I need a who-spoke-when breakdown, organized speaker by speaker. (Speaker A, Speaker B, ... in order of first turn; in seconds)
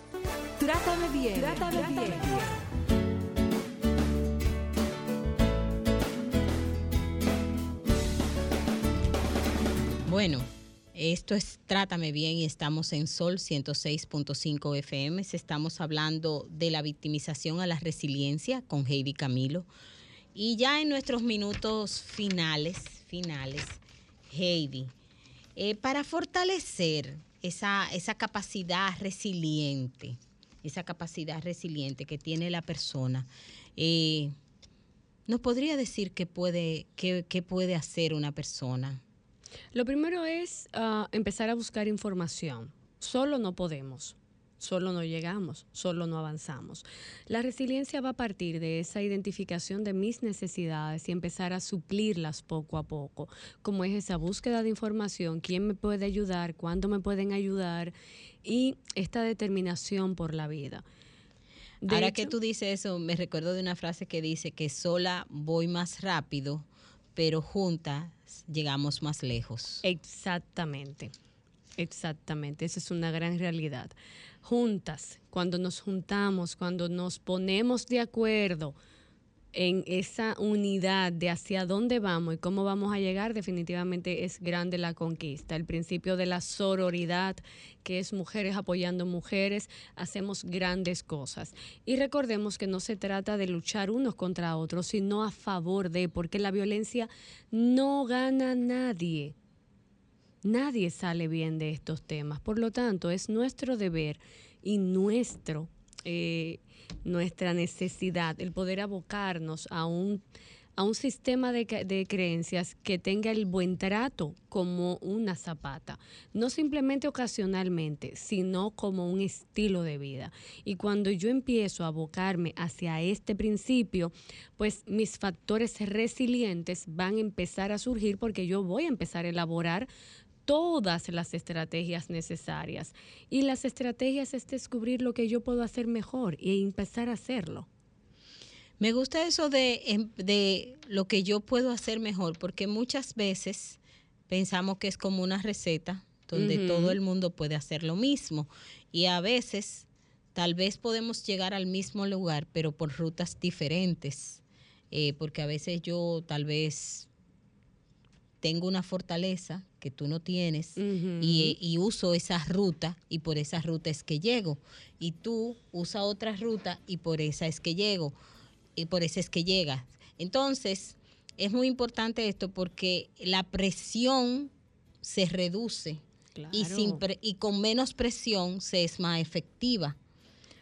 Speaker A: 0.6-2.5
Speaker B: 10.1-19.7, 20.3-24.9, 25.6-34.3, 35.3-39.0, 61.9-69.8, 138.8-157.1, 158.4-168.2, 168.8-174.5, 175.0-180.0
Speaker C: 39.7-57.9, 58.4-60.8, 61.8-62.3, 69.8-71.1, 71.8-78.8, 79.5-99.3, 100.4-110.2, 110.8-129.9, 130.4-137.7, 146.3-147.0, 160.8-161.6, 176.3-177.0